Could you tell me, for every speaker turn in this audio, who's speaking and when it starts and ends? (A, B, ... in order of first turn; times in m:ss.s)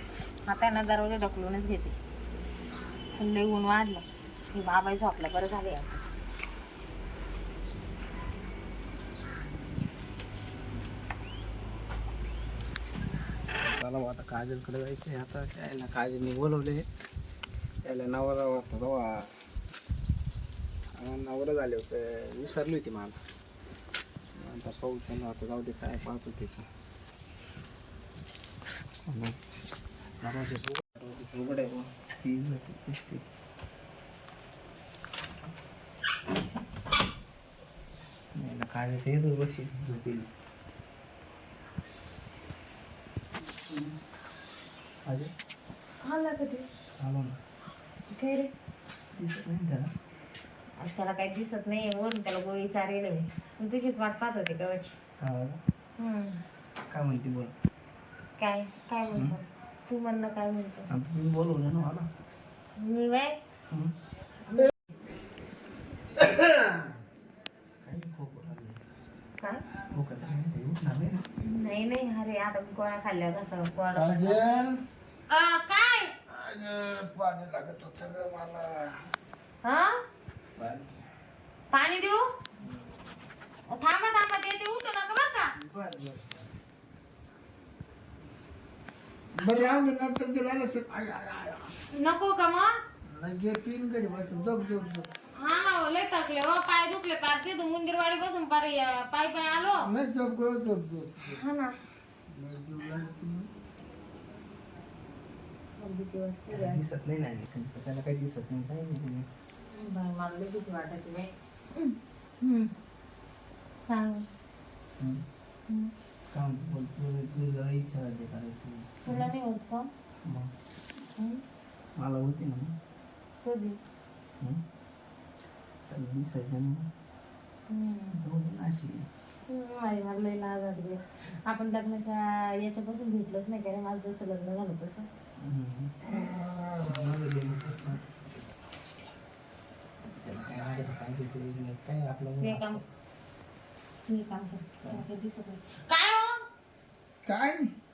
0:00.4-0:01.9 A
0:03.1-0:06.0 A
0:13.6-0:16.9 B
0:17.8-0:19.3 B
0:20.9-0:23.2 B
0:24.3-0:26.7 B
0:29.1-0:29.4 B
0:30.2-0:33.2 B
0:38.4-0:40.3 B
0:43.5-0:44.0 B
0:45.0-0:45.3 B
0:46.0-0:46.7 A
0:47.0-0:47.4 B
0:48.1-0:48.5 A
0:49.2-0:49.9 B
0:50.8-0:54.9 A
0:55.2-0:55.6 B
0:56.0-0:56.4 A
0:56.9-0:57.5 B
0:58.4-1:00.9 A
1:00.9-1:02.1 B
1:02.8-1:03.4 A
1:06.2-1:06.9 C
1:07.8-1:08.8 B
1:09.9-1:11.2 B
1:11.4-1:14.4 A
1:13.9-1:14.8 C
1:15.3-1:16.1 A
1:16.3-1:19.0 C
1:19.6-1:20.0 A
1:20.6-1:21.0 B
1:21.7-1:22.2 A
1:23.7-1:25.5 A
1:25.6-1:26.4 C
1:29.4-1:31.7 C
1:29.4-1:29.8 A
1:31.9-1:32.7 A
1:33.0-1:35.1 C
1:35.4-1:39.9 A
1:39.8-1:41.4 C
1:41.3-1:41.7 A
1:42.3-1:43.5 C
1:45.8-1:46.8 A
1:46.5-1:49.2 B
1:49.7-1:52.7 A
1:53.9-1:54.3 A
1:56.3-1:59.3 B
1:59.0-1:59.9 A
2:00.2-2:00.5 B
2:01.2-2:01.4 A
2:02.0-2:02.8 B
2:03.4-2:03.8 A
2:05.9-2:06.9 B
2:07.7-2:08.2 A
2:08.1-2:09.1 B
2:09.5-2:15.1 A
2:15.4-2:16.0 B
2:16.1-2:17.1 C
2:16.8-2:18.1 B
2:20.2-2:22.8 B
2:22.4-2:22.8 A
2:24.0-2:26.4 A
2:27.2-2:27.7 C